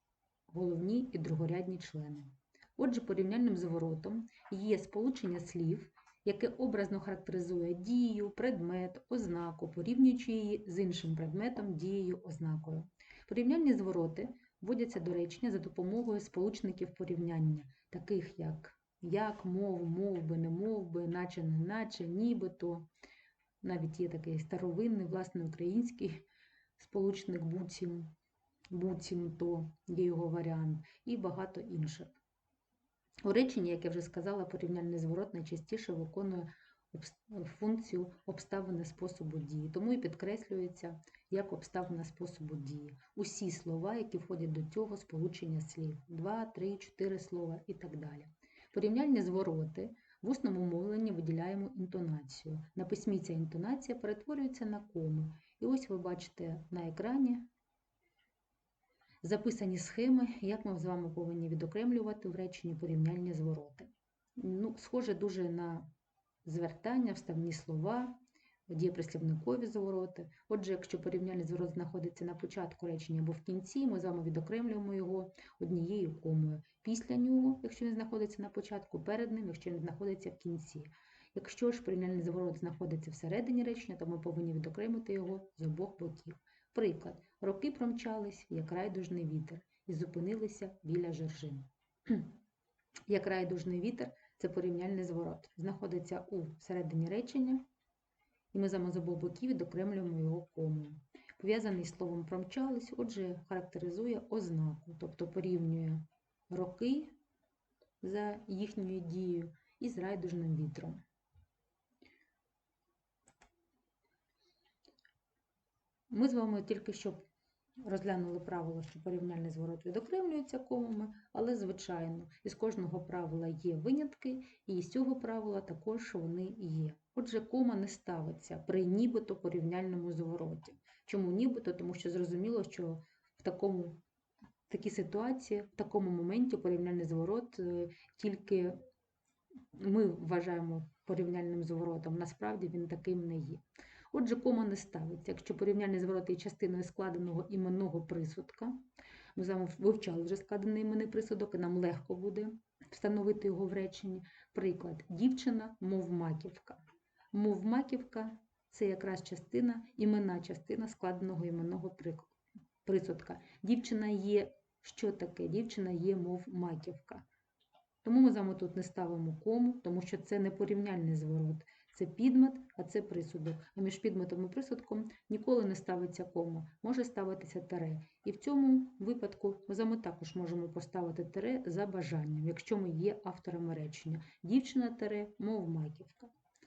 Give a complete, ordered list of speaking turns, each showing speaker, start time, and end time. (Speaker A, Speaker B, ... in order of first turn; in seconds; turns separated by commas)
Speaker A: 0.5-22.9, Speaker A: 23.6-26.3, Speaker A: 26.8-28.1, Speaker A: 28.7-32.1, Speaker A: 33.2-57.5, Speaker A: 59.2-65.9, Speaker A: 66.5-68.2, Speaker A: 68.7-92.3, Speaker A: 93.1-97.7, Speaker A: 98.5-107.1, Speaker A: 108.0-111.0, Speaker A: 116.1-117.2, Speaker A: 117.8-134.0, Speaker A: 134.7-138.8, Speaker A: 139.8-148.8, Speaker A: 149.3-156.8, Speaker A: 157.3-162.3, Speaker A: 162.8-167.3, Speaker A: 168.0-186.3